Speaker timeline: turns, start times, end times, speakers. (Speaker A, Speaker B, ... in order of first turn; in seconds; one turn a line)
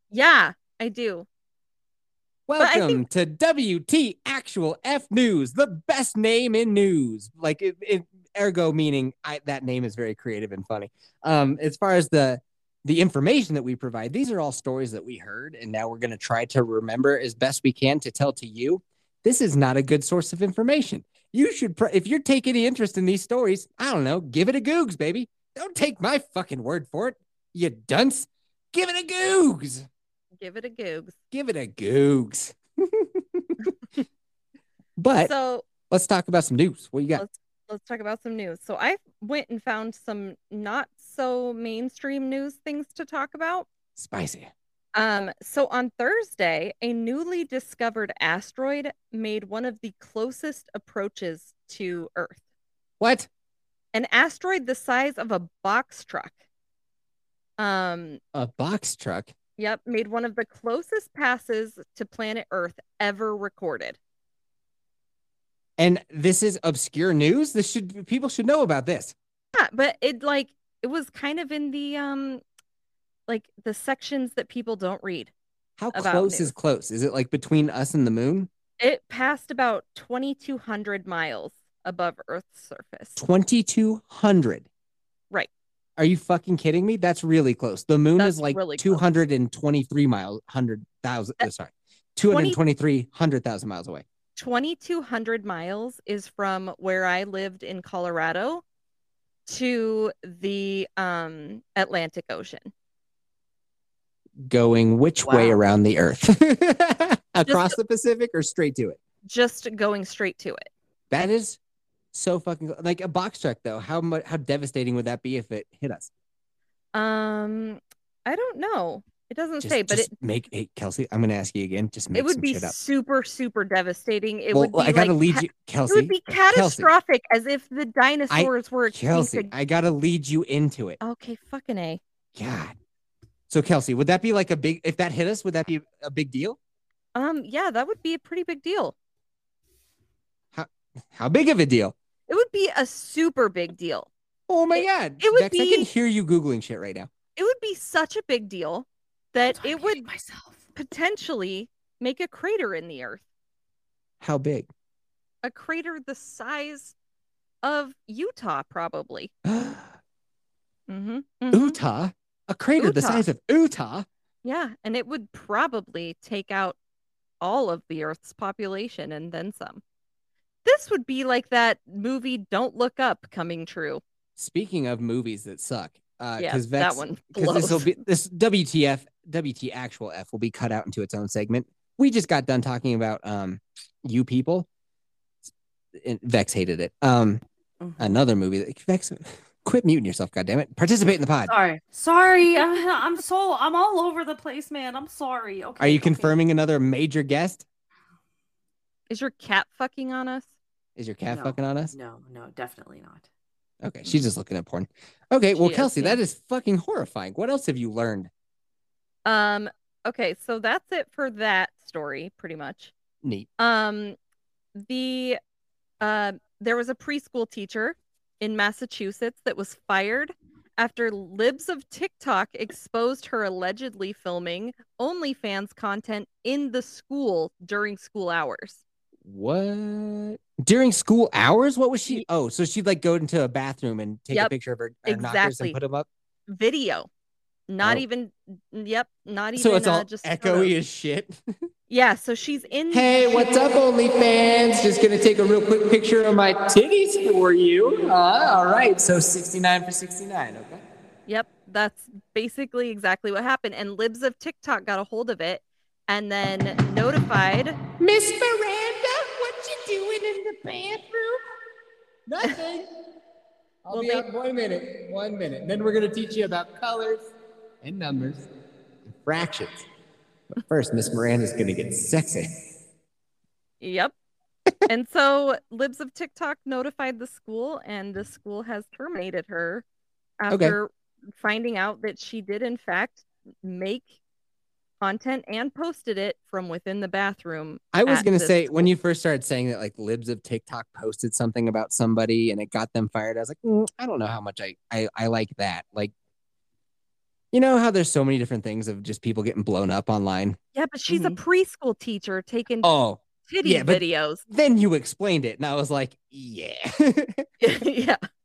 Speaker A: 0.1-1.2
Speaker B: 2.5-29.9
Speaker A: 2.6-3.0
Speaker A: 30.4-31.2
Speaker B: 31.3-33.7
Speaker B: 35.0-35.3
Speaker A: 35.2-35.7
Speaker B: 35.9-37.2
Speaker A: 37.2-43.7
Speaker B: 44.0-44.5
Speaker A: 45.0-52.4
Speaker B: 53.0-53.3
Speaker A: 53.9-56.3
Speaker A: 57.6-58.2
Speaker B: 58.3-59.3
Speaker A: 59.6-64.0
Speaker B: 65.8-69.1
Speaker A: 69.5-72.4
Speaker A: 73.3-75.3
Speaker B: 75.8-78.5
Speaker A: 75.9-76.5
Speaker A: 78.8-83.2
Speaker B: 83.2-84.7
Speaker B: 86.0-94.0
Speaker A: 88.2-89.0
Speaker A: 92.3-92.6
Speaker A: 94.3-98.6
Speaker A: 99.5-102.7
Speaker B: 104.5-109.0
Speaker C: 105.2-105.6
Speaker A: 107.5-107.8
Speaker A: 109.2-110.7
Speaker B: 111.1-111.6
Speaker B: 112.1-116.1
Speaker A: 116.9-120.1
Speaker B: 119.6-122.8
Speaker A: 122.1-129.5
Speaker B: 124.5-126.9
Speaker B: 128.3-131.0
Speaker A: 131.0-132.0
Speaker B: 132.3-132.8
Speaker B: 133.5-136.6
Speaker A: 137.2-138.9
Speaker B: 140.5-141.9
Speaker A: 142.3-144.1
Speaker B: 144.5-147.1
Speaker A: 144.8-145.9
Speaker A: 147.4-150.1
Speaker C: 149.5-150.7
Speaker A: 150.8-153.2
Speaker B: 154.2-154.7
Speaker A: 155.4-156.9
Speaker A: 157.6-159.3
Speaker B: 159.4-160.0
Speaker A: 160.9-161.8
Speaker B: 161.5-164.1
Speaker A: 162.8-163.2
Speaker A: 164.4-166.8
Speaker A: 167.4-169.8
Speaker A: 170.7-174.0
Speaker B: 174.4-184.7
Speaker A: 176.4-177.9
Speaker B: 186.0-187.4
Speaker C: 187.8-188.2
Speaker B: 188.0-191.5
Speaker C: 191.5-196.3
Speaker B: 195.8-197.7
Speaker A: 199.1-200.5
Speaker B: 201.0-201.9
Speaker C: 201.3-203.3
Speaker B: 203.8-208.3
Speaker A: 205.6-206.2
Speaker A: 209.2-212.9
Speaker A: 213.6-214.2
Speaker A: 214.8-215.4
Speaker A: 216.0-228.8
Speaker B: 229.2-236.1
Speaker A: 235.1-235.8
Speaker A: 236.5-237.1
Speaker A: 237.7-240.7
Speaker B: 239.6-241.3
Speaker A: 241.9-243.5
Speaker B: 242.9-250.8
Speaker A: 251.3-257.8
Speaker B: 258.0-261.4
Speaker B: 262.3-262.9
Speaker B: 263.8-267.3
Speaker A: 263.9-264.2
Speaker B: 267.8-268.5
Speaker B: 269.2-269.8
Speaker B: 270.6-272.7
Speaker A: 273.8-274.1
Speaker A: 274.9-279.8
Speaker A: 280.4-284.1
Speaker B: 280.5-280.8
Speaker A: 285.0-288.9
Speaker B: 287.9-296.1
Speaker B: 297.5-300.6
Speaker A: 300.8-302.9
Speaker C: 301.1-301.4
Speaker B: 302.8-307.4
Speaker A: 303.5-304.4
Speaker A: 307.6-308.2